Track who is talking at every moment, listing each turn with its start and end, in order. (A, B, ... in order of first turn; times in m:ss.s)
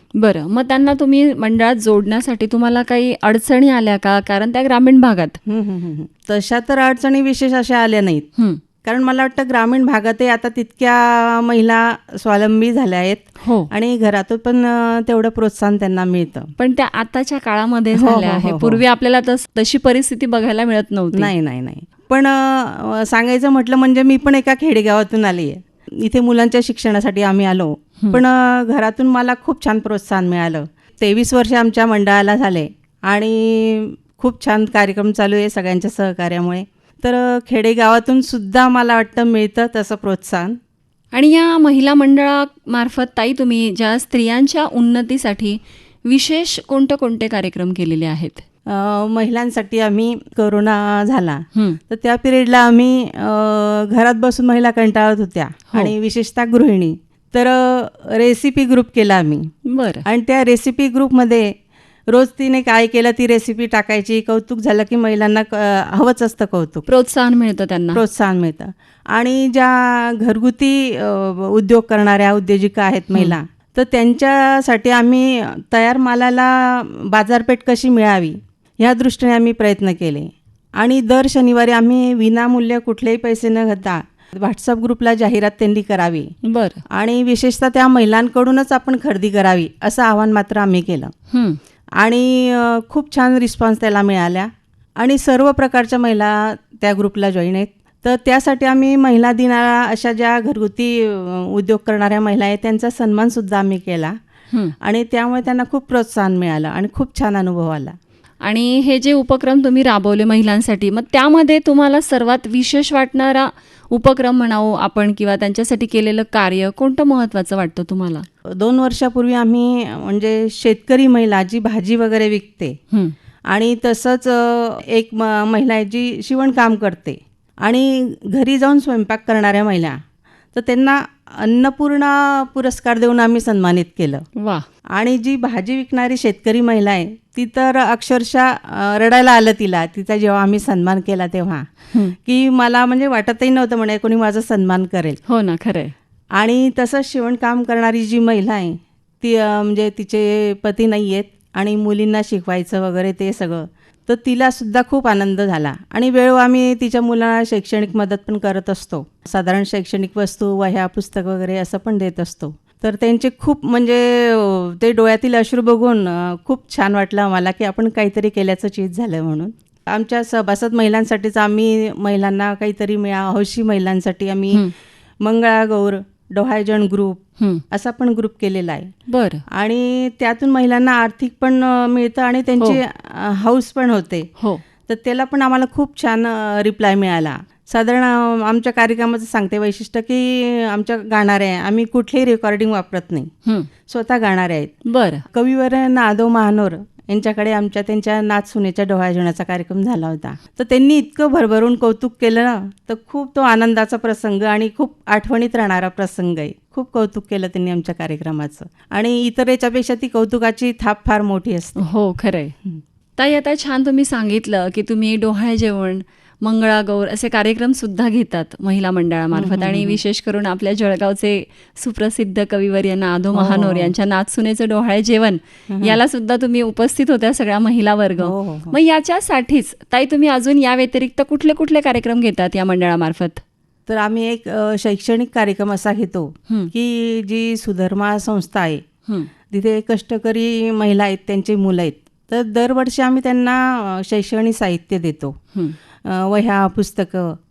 0:00.2-0:05.4 A
0:05.4-0:08.3 B
0:08.4-0:08.6 A
0:08.8-0:16.5 B
0:13.4-0:13.7 A
0:16.6-0:21.3 A
0:18.0-0:18.8 B
0:21.1-0:40.6 B
0:41.1-0:48.4 A
0:48.7-0:59.5 B
0:59.6-1:00.0 A
1:00.0-1:01.5 B
1:02.1-1:06.9 B
1:06.9-1:08.0 A
1:07.9-1:26.3 B
1:26.4-1:26.8 A
1:26.9-1:31.1 B
1:31.3-1:31.6 A
1:32.0-1:44.2 B
1:44.8-1:48.0 B
1:48.4-1:58.2 A
1:58.4-2:02.8 B
2:03.5-2:10.0 B
2:10.5-2:14.2 B
2:14.4-2:14.6 A
2:14.9-2:25.2 B
2:25.3-2:25.9 A
2:26.3-2:54.6 B
2:55.2-2:58.9 B
2:57.4-2:57.6 A
2:59.1-2:59.4 A
2:59.5-3:04.3 B
3:04.4-3:04.6 A
3:04.9-3:13.3 B
3:13.8-3:14.7 B
3:14.8-3:15.2 A
3:15.3-3:31.8 B
3:31.8-3:32.5 A
3:33.2-3:53.4 A
3:39.3-3:40.0 B
3:43.3-3:43.9 B
3:45.7-3:46.0 B
3:48.2-3:48.7 B
3:53.9-3:58.8 B
3:59.5-4:05.4 B
4:06.0-4:07.4 B